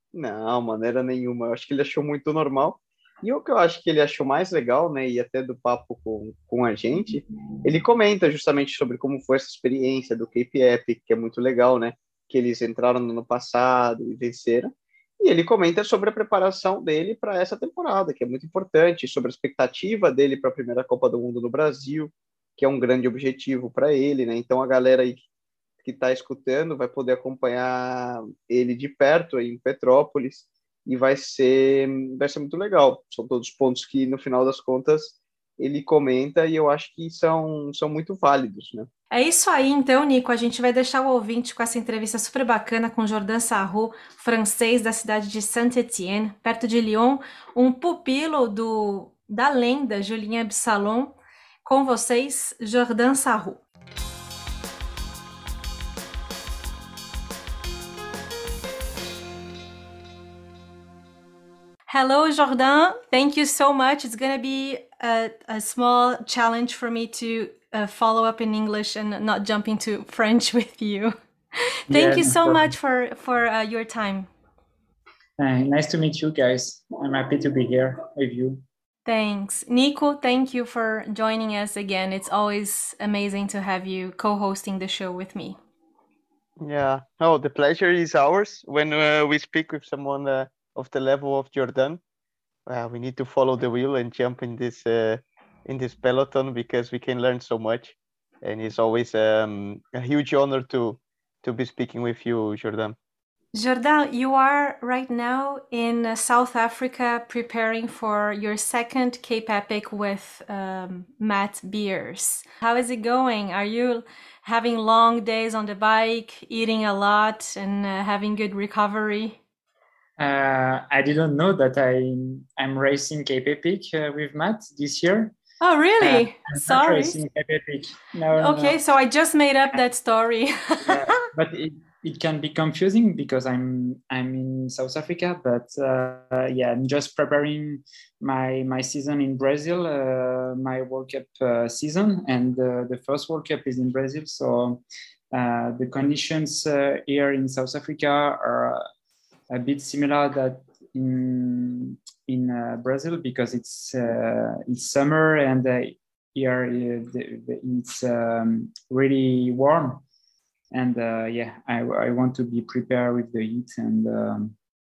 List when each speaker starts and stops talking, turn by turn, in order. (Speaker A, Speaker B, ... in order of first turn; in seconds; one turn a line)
Speaker A: 0.1-25.2
Speaker A: 25.8-38.9
Speaker B: 39.1-53.6
Speaker B: 61.9-74.3
Speaker C: 71.9-72.7
Speaker C: 75.4-78.6
Speaker B: 79.1-85.6
Speaker A: 86.6-92.0
Speaker A: 92.7-103.0
Speaker B: 103.5-119.4
Speaker C: 120.2-125.4
Speaker B: 125.6-127.2
Speaker C: 126.0-128.8
Speaker B: 128.4-131.2
Speaker C: 130.8-144.8
Speaker C: 145.3-148.9
Speaker C: 149.5-160.0
Speaker C: 160.7-164.6